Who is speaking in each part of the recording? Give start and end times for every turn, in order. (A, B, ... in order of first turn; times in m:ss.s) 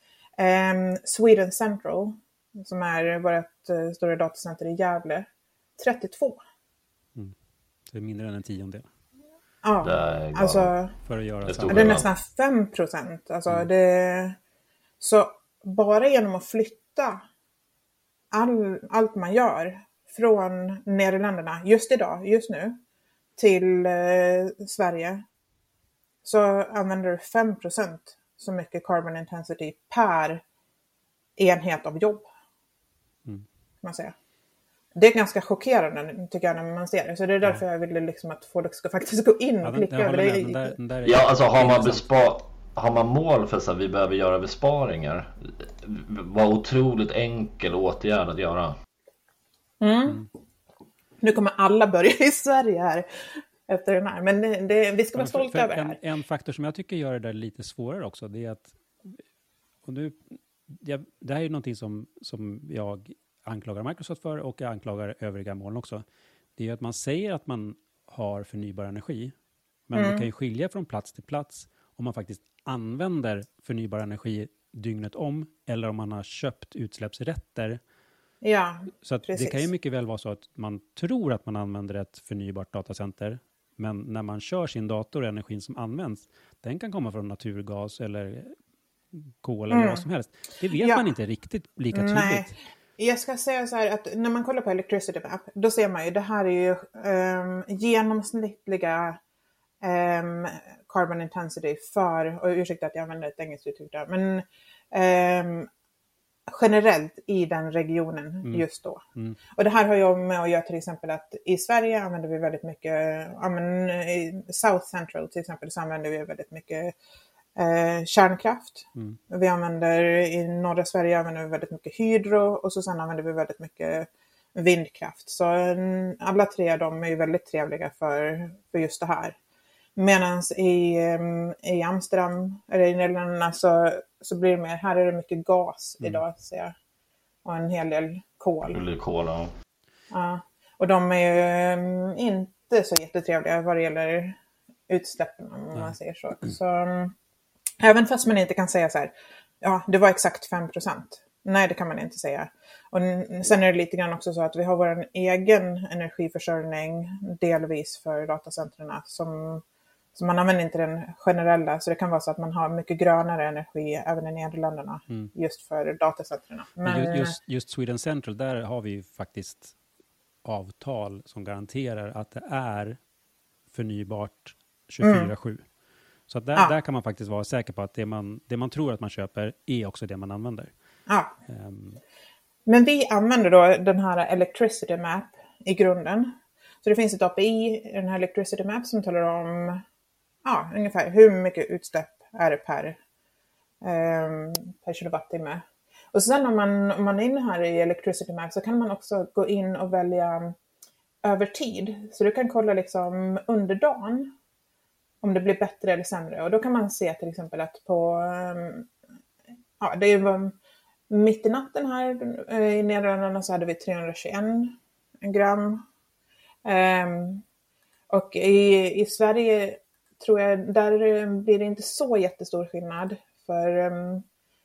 0:00.4-0:05.3 A
0:05.8-0:06.4 A
0:07.9-0:08.9 B
0:09.6-0:11.0 A
0:09.8-0:10.7 C
0:11.0-0:12.0 B
0:11.4-0:12.1 C
0:11.7-0:14.4 A
0:15.0-0:17.2 A
0:18.3-0:22.8 A
0:23.4-0:25.2 A
0:26.2-0:30.4 A
0:31.4-0:32.3 A
0:33.8-0:34.2 A
0:35.0-0:40.8 A
0:39.6-0:42.1 B
0:41.0-0:48.8 C
0:49.8-0:50.2 A
0:51.2-0:53.1 A
0:53.7-0:56.0 A
0:55.2-0:59.2 B
0:59.9-1:06.0 B
1:06.6-1:09.3 B
1:09.9-1:17.8 B
1:10.0-1:10.3 A
1:18.4-1:19.7 A
1:19.0-1:28.6 B
1:29.1-1:32.5 B
1:29.7-1:30.1 A
1:30.7-1:31.1 A
1:31.9-1:39.2 A
1:39.8-1:45.7 A
1:46.5-1:49.0 A
1:49.6-1:57.0 A
1:57.6-2:09.4 A
2:10.0-2:16.7 A
2:17.4-2:18.8 A
2:18.7-2:19.5 C
2:20.1-2:24.4 A
2:24.9-2:27.1 A
2:27.8-2:39.6 A
2:40.2-2:47.4 A
2:46.8-2:49.7 B
2:50.4-2:53.0 B
2:53.7-2:55.6 B
2:55.0-2:55.3 A
2:56.3-3:00.7 B
3:01.1-3:01.3 A
3:01.5-3:02.0 B
3:02.7-3:09.8 A
3:10.4-3:13.0 A
3:13.8-3:20.6 A
3:21.2-3:24.3 A
3:25.2-3:28.9 A
3:29.8-3:30.6 A
3:31.1-3:35.8 A
3:36.6-3:37.4 A
3:38.1-3:44.2 A